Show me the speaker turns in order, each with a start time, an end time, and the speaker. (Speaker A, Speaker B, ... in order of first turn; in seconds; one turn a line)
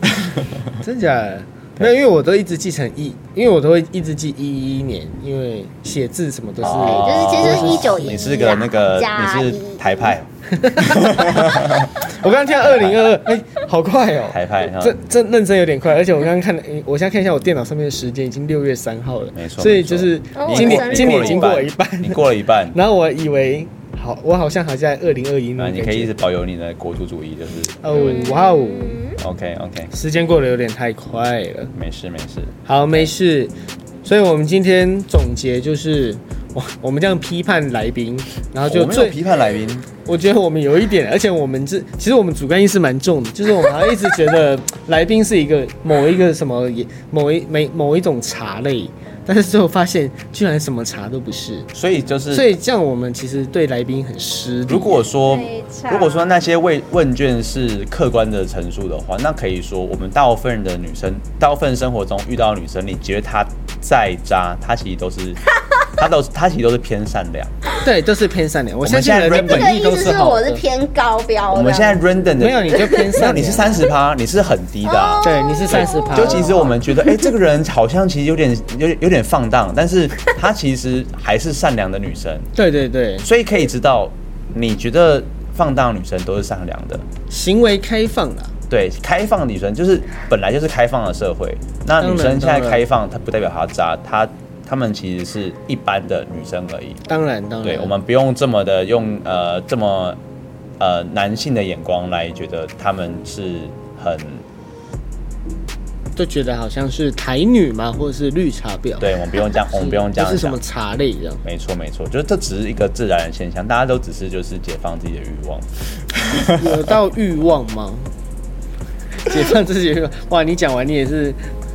Speaker A: 0.2-0.7
Speaker B: 0.8-8.3
Speaker A: 6.6-12.0
Speaker C: 6.6-10.1
Speaker B: 10.5-26.1
Speaker A: 12.6-13.1
Speaker A: 14.3-15.0
Speaker A: 19.3-22.8
Speaker C: 20.3-21.5
Speaker A: 25.6-28.3
Speaker B: 27.8-29.1
Speaker C: 27.9-29.2
Speaker A: 29.2-29.9
Speaker B: 29.9-31.7
Speaker A: 31.7-33.1
Speaker B: 32.6-39.2
Speaker A: 38.6-39.9
Speaker B: 40.0-51.7
Speaker A: 51.7-52.5
Speaker B: 52.3-55.0
Speaker A: 54.7-65.4
Speaker C: 55.1-56.4
Speaker A: 65.9-67.5
Speaker B: 67.8-70.6
Speaker A: 68.8-69.8
Speaker C: 69.3-72.1
Speaker A: 71.5-82.5
Speaker B: 72.4-73.9
Speaker C: 74.8-77.1
Speaker B: 75.2-76.7
Speaker B: 82.5-83.3
Speaker A: 83.2-87.0
Speaker B: 87.3-88.5
Speaker A: 88.7-97.0
Speaker B: 92.0-92.8
Speaker B: 97.1-97.9
Speaker A: 97.6-100.2
Speaker A: 100.8-104.4
Speaker B: 106.2-111.4
Speaker A: 109.0-110.6
Speaker A: 111.4-116.8
Speaker B: 116.5-118.1
Speaker B: 119.2-121.4